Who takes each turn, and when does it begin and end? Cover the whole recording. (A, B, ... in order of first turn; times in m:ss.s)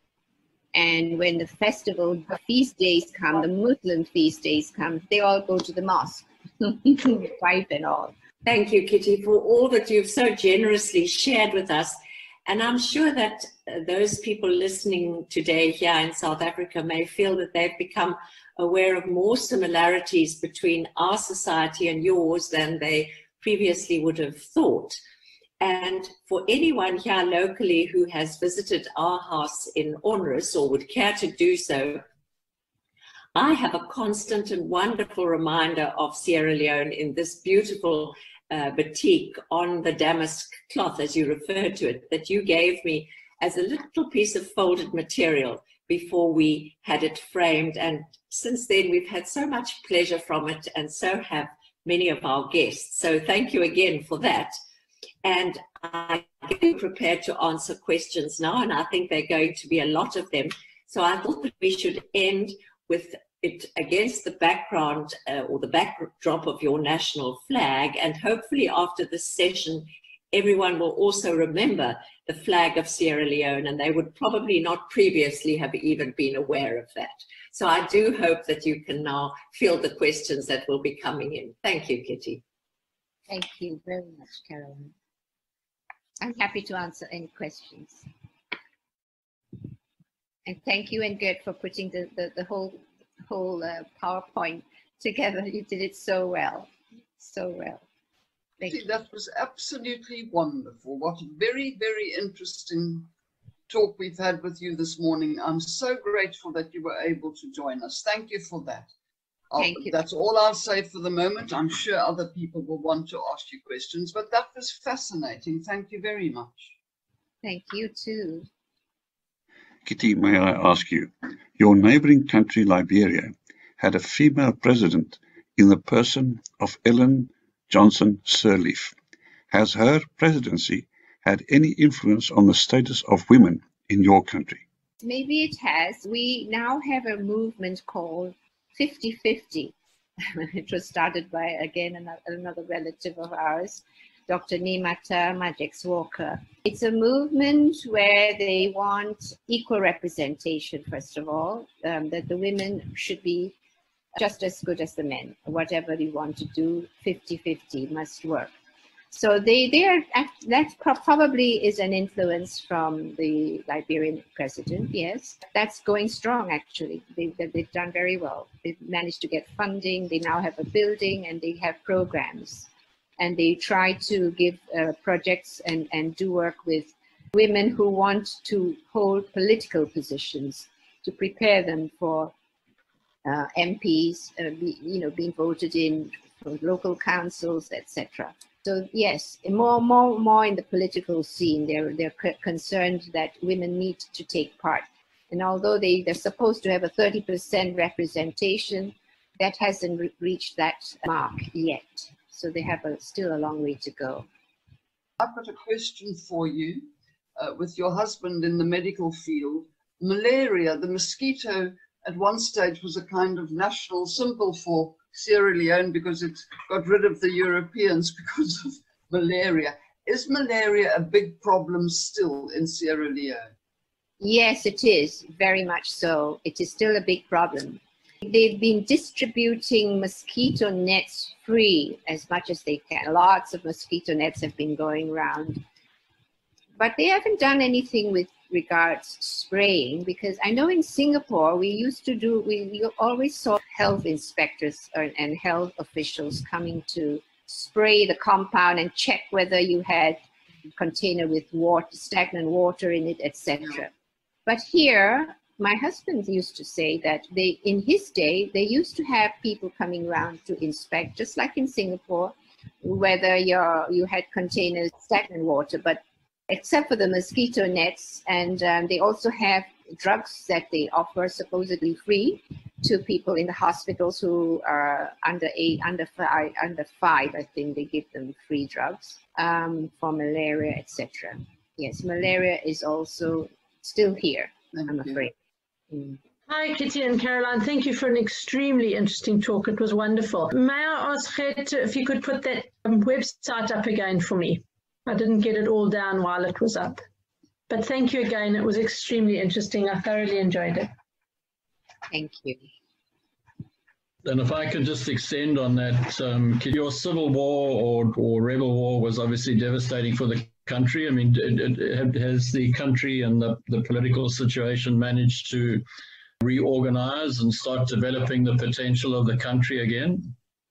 0:00.8-0:08.1 A
0:08.4-0:25.0 B
0:25.6-0:32.0 B
0:33.4-0:54.6 B
0:55.2-1:22.4 B
1:23.3-1:24.9 A
1:26.2-1:28.1 A
1:30.5-1:37.8 A
1:38.7-1:43.1 C
1:43.7-1:48.9 C
1:49.5-1:56.7 C
1:49.6-1:50.0 A
1:57.4-1:58.5 A
1:59.8-2:09.0 D
2:09.5-2:14.6 D
2:15.0-2:19.7 A
2:20.3-2:33.5 A
2:34.2-2:38.5 A
2:39.1-2:52.7 A
2:53.2-3:02.3 A
3:03.2-3:24.3 A
3:25.2-3:43.5 C
3:44.2-3:55.6 A
3:56.8-4:10.2 A
4:10.8-4:13.9 A
4:14.5-4:45.3 A
4:44.8-4:45.0 C
4:45.9-4:46.2 A
4:46.5-4:57.0 E
4:57.7-5:00.9 E
5:02.1-5:02.6 A
5:04.2-5:15.8 F
5:16.4-5:20.3 F